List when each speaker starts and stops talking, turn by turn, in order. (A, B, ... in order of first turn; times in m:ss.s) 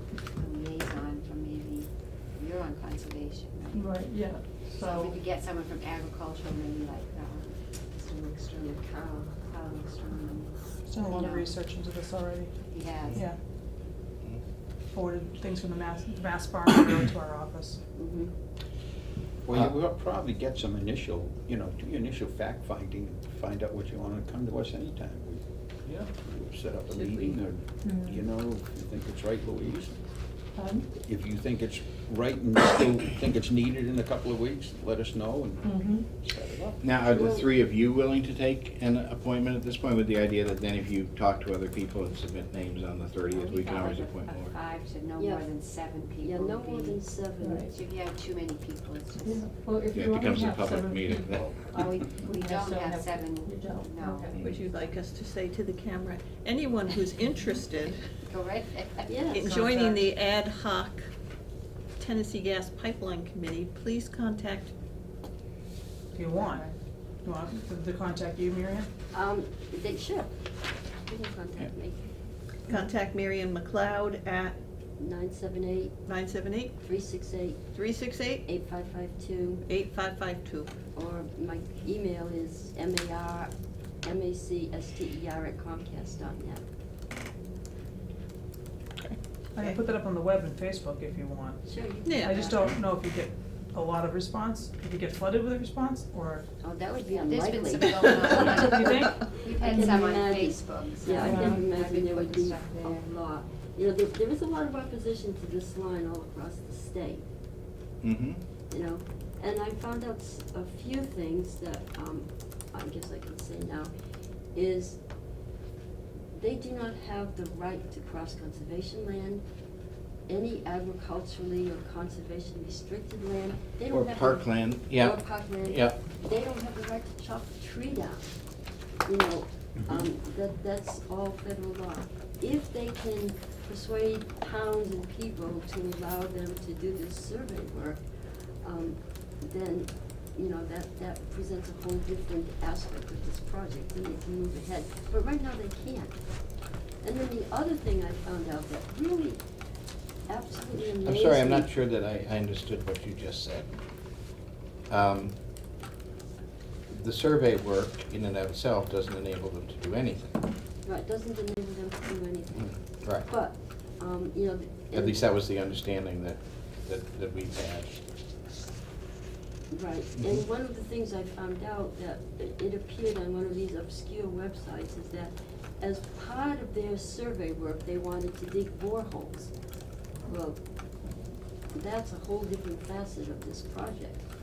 0:00.4-0:11.5 A
0:03.7-0:05.2 B
0:10.9-0:12.5 C
0:12.7-0:13.3 A
0:14.9-0:17.8 C
0:18.0-0:18.3 A
0:19.4-0:30.1 D
0:26.9-0:27.4 E
0:27.8-0:28.2 B
0:30.6-0:30.9 B
0:30.9-0:36.8 D
0:35.6-0:36.1 B
0:36.8-0:44.5 F
0:37.1-0:37.5 G
0:43.3-0:47.0 A
0:45.2-0:45.5 G
0:46.2-0:47.7 G
0:47.4-0:47.7 B
0:47.7-0:49.5 A
0:49.2-0:54.6 B
0:49.9-0:51.6 F
0:51.7-0:54.3 A
0:54.4-0:58.0 E
0:58.2-0:59.3 A
0:59.1-0:59.6 G
0:59.3-1:01.1 E
0:59.4-1:00.0 B
1:02.0-1:04.7 E
1:06.1-1:06.6 C
1:06.3-1:06.7 A
1:07.2-1:08.9 C
1:09.1-1:10.3 G
1:11.1-1:12.0 G
1:12.7-1:14.6 E
1:15.0-1:15.9 G
1:16.1-1:16.7 E
1:16.8-1:17.7 G
1:17.7-1:18.5 E
1:18.5-1:19.6 G
1:19.6-1:20.7 E
1:20.9-1:23.5 G
1:24.0-1:26.6 G
1:29.0-1:29.8 E
1:29.6-1:31.6 C
1:31.6-1:32.7 G
1:32.0-1:32.4 E
1:32.2-1:36.4 C
1:36.6-1:43.1 A
1:37.1-1:47.2 G
1:38.6-1:39.1 B
1:41.2-1:41.6 B
1:48.0-1:48.4 F
1:48.7-1:53.9 G
1:54.6-1:55.0 G
1:56.4-1:59.4 G
2:00.3-2:08.3 G
2:03.9-2:06.0 F
2:09.1-2:18.0 G
2:18.6-2:26.2 G
2:27.0-2:29.4 G
2:30.3-2:31.7 G
2:30.8-2:33.7 F
2:34.9-2:35.3 F
2:36.9-2:40.4 F
2:40.8-2:45.2 G
2:42.6-2:43.3 F
2:44.9-2:47.9 F
2:49.7-2:59.5 G
2:50.2-2:50.4 F
3:00.3-3:00.6 G
3:01.7-3:04.2 G